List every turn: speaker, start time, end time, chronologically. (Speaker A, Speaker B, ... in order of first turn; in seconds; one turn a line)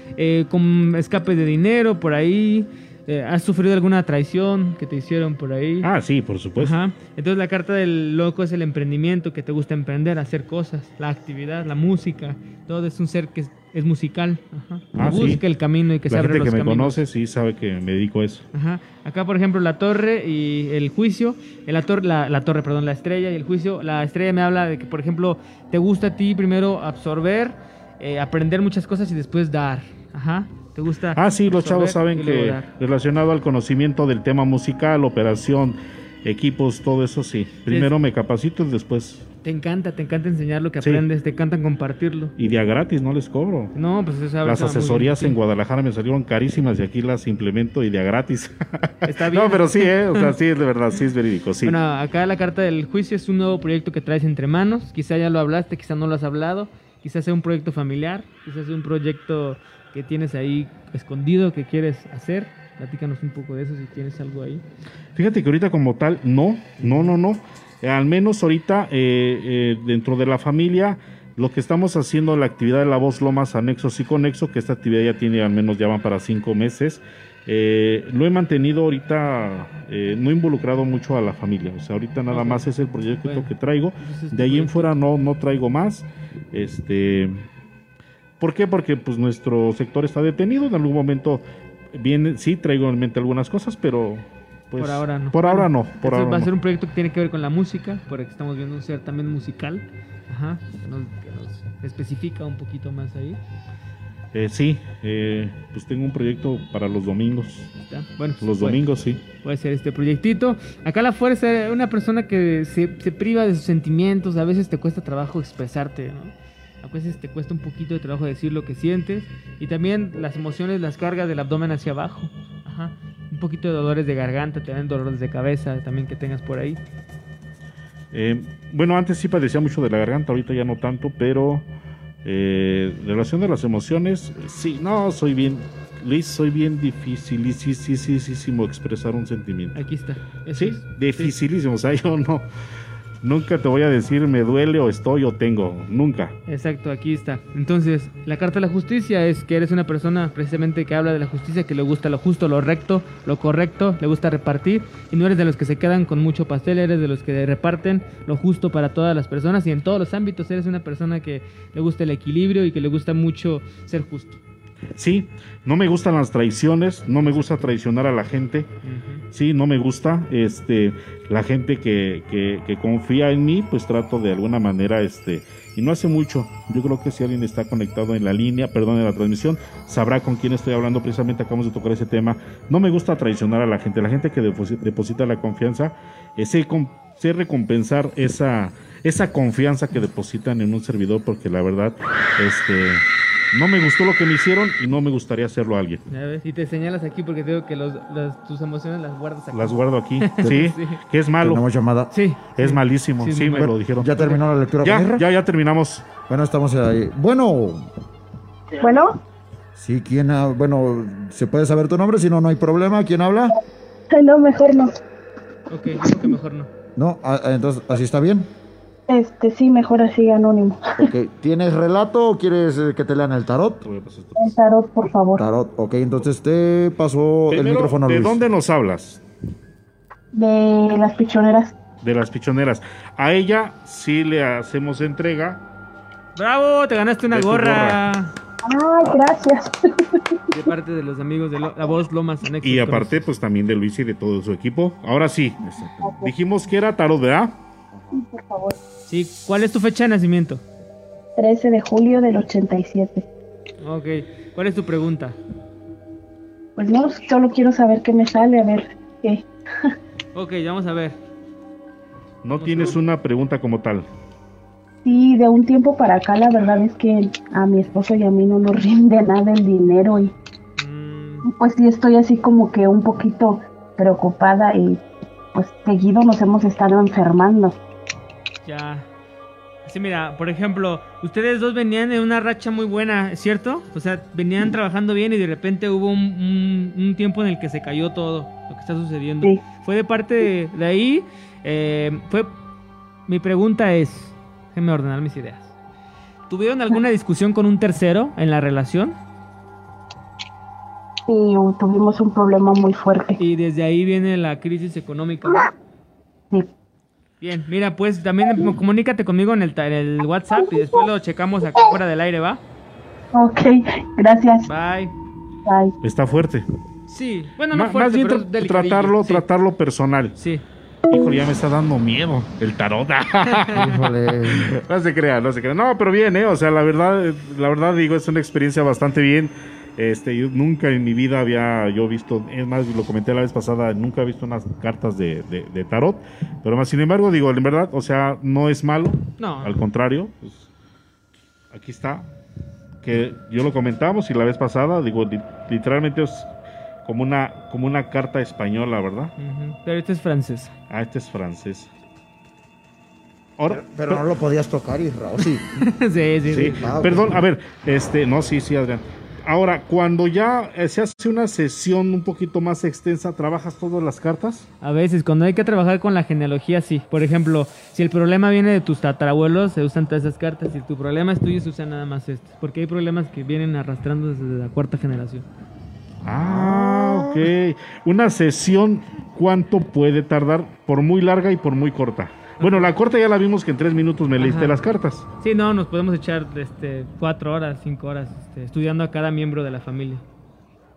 Speaker A: 0.2-5.9
Speaker B: 5.8-6.8
Speaker A: 6.6-17.0
Speaker B: 14.9-15.4
Speaker B: 16.1-18.4
Speaker A: 18.5-32.7
Speaker B: 31.1-39.2
Speaker A: 39.4-42.3
Speaker B: 42.4-43.7
Speaker A: 43.8-45.4
Speaker B: 44.4-51.8
Speaker A: 49.0-50.3
Speaker A: 51.6-64.6
Speaker B: 65.2-87.5
Speaker A: 66.8-67.2
Speaker A: 82.3-85.0
Speaker B: 88.4-96.5
Speaker A: 94.8-103.4
Speaker B: 104.3-107.7
Speaker A: 107.9-126.8
Speaker B: 108.4-109.2
Speaker B: 128.1-131.7
Speaker B: 132.2-139.8
Speaker A: 139.8-141.3
Speaker B: 140.5-142.5
Speaker B: 143.2-146.3
Speaker A: 146.5-164.4
Speaker B: 165.0-168.7
Speaker A: 168.8-169.2
Speaker B: 169.3-196.0
Speaker A: 196.1-201.0
Speaker B: 199.5-201.6
Speaker C: 201.4-202.1
Speaker A: 202.1-204.4
Speaker B: 202.6-204.1
Speaker C: 204.0-205.2
Speaker B: 204.8-206.1
Speaker C: 206.3-207.9
Speaker D: 208.8-209.2
Speaker C: 209.8-213.6
Speaker D: 214.1-214.9
Speaker A: 215.7-216.7
Speaker C: 217.0-218.5
Speaker D: 219.1-220.9
Speaker C: 221.0-223.8
Speaker B: 223.8-224.5
Speaker D: 224.4-225.4
Speaker C: 225.4-228.4
Speaker B: 227.5-229.2
Speaker D: 230.3-231.7
Speaker B: 232.0-235.6
Speaker A: 236.4-238.3
Speaker B: 237.3-238.0
Speaker D: 238.6-240.2
Speaker A: 240.5-243.2
Speaker B: 242.6-245.6
Speaker C: 245.6-246.1
Speaker B: 246.2-247.6
Speaker C: 247.9-248.2
Speaker D: 248.1-248.8
Speaker A: 249.1-250.6
Speaker D: 251.4-253.2
Speaker A: 253.8-255.4
Speaker D: 256.8-259.4
Speaker A: 260.4-261.2
Speaker B: 262.4-264.1
Speaker A: 262.6-263.0
Speaker D: 265.1-270.3
Speaker A: 270.8-271.5
Speaker D: 271.4-275.0
Speaker D: 275.5-277.8
Speaker A: 278.6-279.1
Speaker A: 279.9-292.5
Speaker A: 293.3-295.7
Speaker A: 296.5-299.2
Speaker D: 301.3-303.4
Speaker A: 303.4-305.7
Speaker A: 307.4-312.6
Speaker D: 313.3-314.7
Speaker A: 314.7-315.1
Speaker D: 315.7-315.9
Speaker B: 316.0-316.7
Speaker A: 317.1-319.4
Speaker B: 317.7-320.4
Speaker A: 320.4-320.6
Speaker B: 321.1-323.9
Speaker C: 323.7-324.8
Speaker B: 324.5-340.7
Speaker A: 339.4-339.8
Speaker B: 341.7-342.3
Speaker B: 343.0-346.5
Speaker B: 347.1-349.3
Speaker A: 349.4-350.7
Speaker B: 350.9-351.9
Speaker B: 353.6-354.2
Speaker C: 353.7-355.6
Speaker A: 355.8-356.8
Speaker C: 356.5-357.3
Speaker B: 356.5-364.7
Speaker A: 364.8-375.5
Speaker C: 376.2-377.4
Speaker B: 376.2-385.3
Speaker A: 382.6-382.9
Speaker A: 384.4-384.8
Speaker A: 385.4-390.2